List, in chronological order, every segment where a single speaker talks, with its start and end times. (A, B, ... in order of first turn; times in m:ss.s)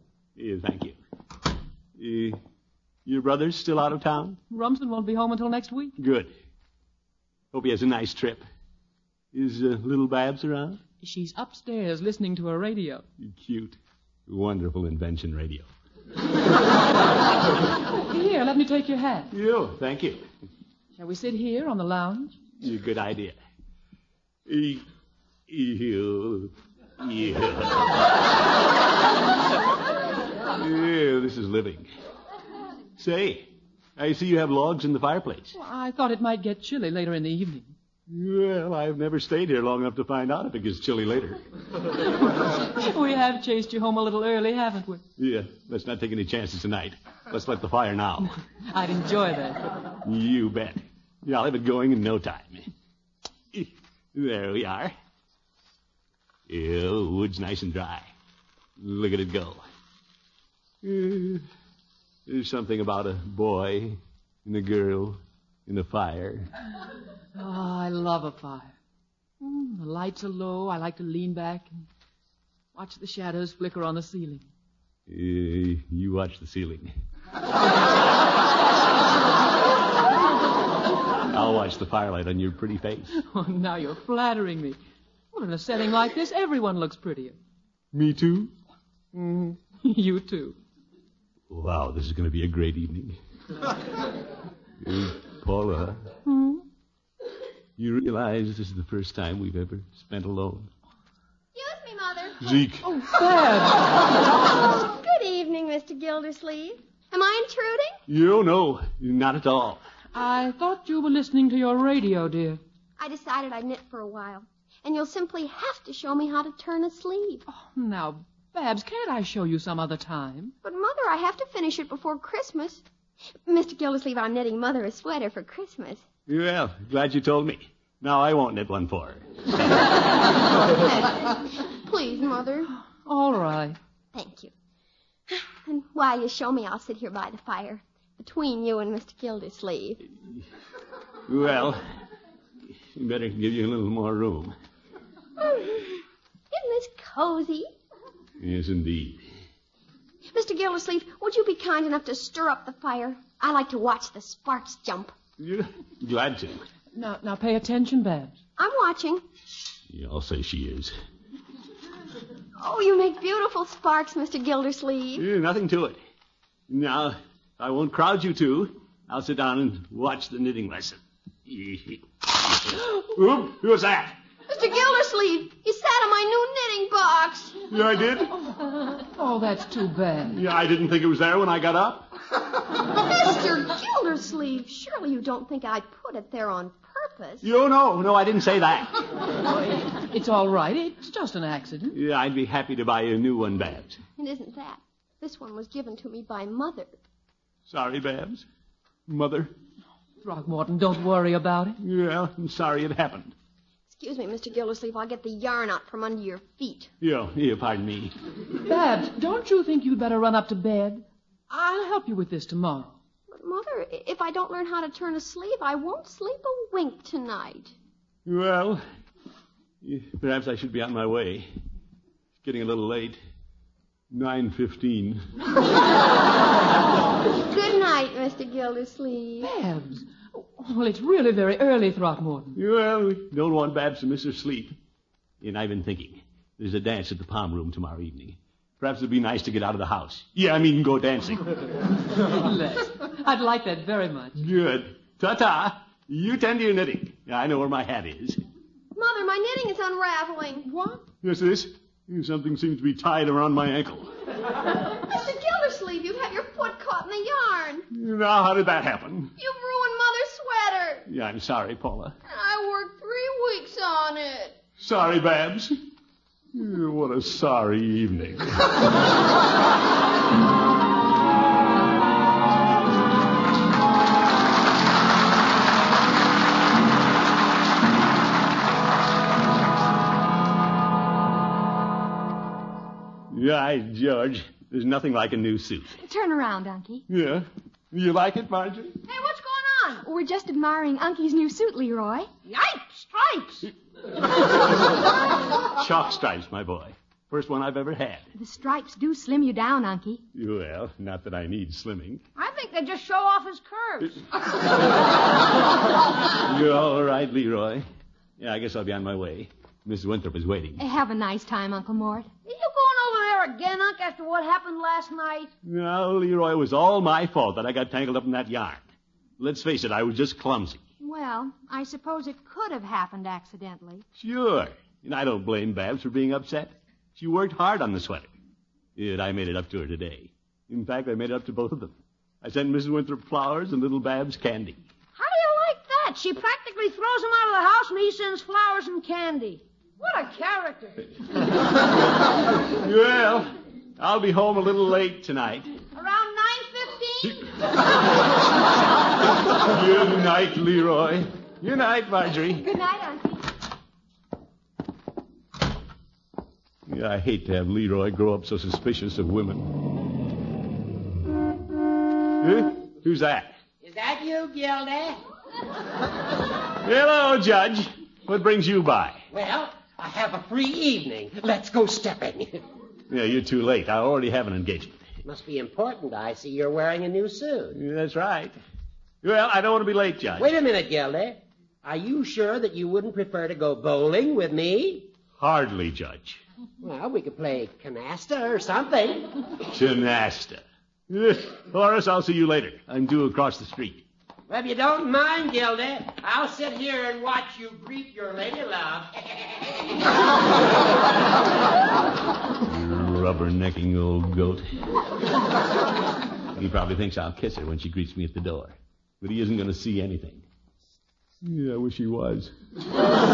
0:00.4-0:01.0 A
0:02.0-0:02.4 A
0:03.0-0:04.4 A
0:04.5-0:06.0 B
0:06.0-0:06.3 A
0:07.5-0:08.4 A
0:09.3-0:10.8 A
0:11.0-0:13.1 B
0:13.2-0:15.7 A
0:17.9-0:19.3 B
0:19.3-0:20.2 A
0:21.0-0:22.4 B
0:22.6-0:23.4 A
0:24.5-0:24.8 A
0:25.5-0:27.9 A
0:30.6-0:31.9 A
0:33.0-0:35.6 A
0:35.5-0:37.7 B
0:38.1-0:41.4 A
0:42.2-0:45.0 B
0:45.2-0:48.3 A
0:48.7-0:49.6 B
0:50.0-0:52.7 A
0:53.5-0:54.9 A
0:56.5-0:58.1 A
0:58.8-0:59.6 A
1:00.8-1:01.4 A
1:02.3-1:06.5 A
1:07.4-1:08.8 B
1:09.4-1:11.8 B
1:12.7-1:14.5 B
1:15.1-1:16.9 A
1:21.3-1:23.2 A
1:23.2-1:24.8 B
1:25.3-1:27.4 B
1:27.9-1:28.5 A
1:29.1-1:30.6 B
1:31.5-1:33.2 A
1:34.8-1:36.1 A
1:36.2-1:36.6 B
1:37.8-1:40.7 A
1:41.5-1:42.6 C
1:42.4-1:42.9 A
1:42.8-1:44.0 B
1:44.5-1:48.0 C
1:48.1-1:49.8 A
1:50.1-1:52.6 B
1:53.0-1:57.4 C
1:57.5-2:00.5 B
2:00.6-2:02.8 C
2:03.4-2:06.0 C
2:06.3-2:09.3 A
2:11.0-2:12.7 C
2:12.9-2:13.8 B
2:14.1-2:14.5 C
2:15.3-2:20.0 C
2:21.3-2:21.8 A
2:23.0-2:24.5 A
2:25.4-2:27.7 C
2:28.4-2:29.2 A
2:30.3-2:35.2 C
2:35.4-2:36.6 A
2:36.9-2:38.4 B
2:38.6-2:39.2 C
2:39.9-2:40.9 A
2:42.6-2:45.3 C
2:45.2-2:46.0 A
2:46.7-2:54.2 A
2:54.5-2:57.6 C
2:57.7-2:58.4 A
2:58.4-3:00.4 B
3:00.3-3:02.1 A
3:02.9-3:07.5 C
3:07.4-3:09.0 A
3:10.0-3:12.0 B
3:11.9-3:14.0 A
3:14.2-3:16.9 C
3:17.7-3:18.5 A
3:19.1-3:19.5 A
3:20.2-3:21.8 B
3:21.8-3:23.3 A
3:23.9-3:26.9 C
3:27.0-3:28.1 A
3:28.6-3:33.0 B
3:33.3-3:37.7 C
3:38.3-3:38.8 A
3:39.8-3:41.5 A
3:42.4-3:43.2 A
3:44.1-3:45.2 A
3:47.5-3:49.5 C
3:49.4-3:52.6 B
3:52.6-3:54.8 A
3:55.4-4:01.7 A
4:02.3-4:04.4 B
4:04.4-4:08.4 A
4:08.9-4:10.7 C
4:10.7-4:11.0 B
4:11.2-4:14.1 A
4:14.7-4:17.9 C
4:17.9-4:19.3 A
4:19.4-4:21.0 C
4:21.1-4:22.2 A
4:22.3-4:24.6 C
4:24.8-4:25.8 A
4:26.5-4:28.9 A
4:43.3-4:46.0 A
4:46.0-4:47.0 D
4:47.1-4:49.0 A
4:49.1-4:50.1 E
4:50.0-4:52.3 D
4:52.5-4:53.7 E
4:55.7-4:58.3 A
4:58.4-5:00.2 D
5:00.3-5:02.2 A
5:02.4-5:04.2 E
5:06.4-5:07.8 A
5:08.4-5:10.8 A
5:10.8-5:12.3 D
5:12.4-5:15.5 E
5:15.6-5:18.8 A
5:19.4-5:20.8 A
5:21.0-5:24.0 D
5:24.2-5:28.3 A
5:29.0-5:34.8 A
5:35.2-5:41.1 E
5:42.7-5:45.7 A
5:46.0-5:47.5 E
5:49.6-5:52.6 A
5:52.6-5:53.4 D
5:56.9-5:59.7 A
6:02.4-6:03.6 A
6:03.8-6:05.2 F
6:06.8-6:09.2 A
6:09.3-6:12.6 F
6:13.1-6:15.1 A
6:15.2-6:17.8 F
6:17.7-6:18.6 A
6:19.2-6:20.5 A
6:20.4-6:25.1 F
6:25.4-6:26.4 A
6:26.8-6:29.4 F
6:29.7-6:34.0 A
6:34.5-6:39.5 F
6:42.6-6:44.7 A
6:46.6-6:50.4 A
6:51.4-6:52.5 A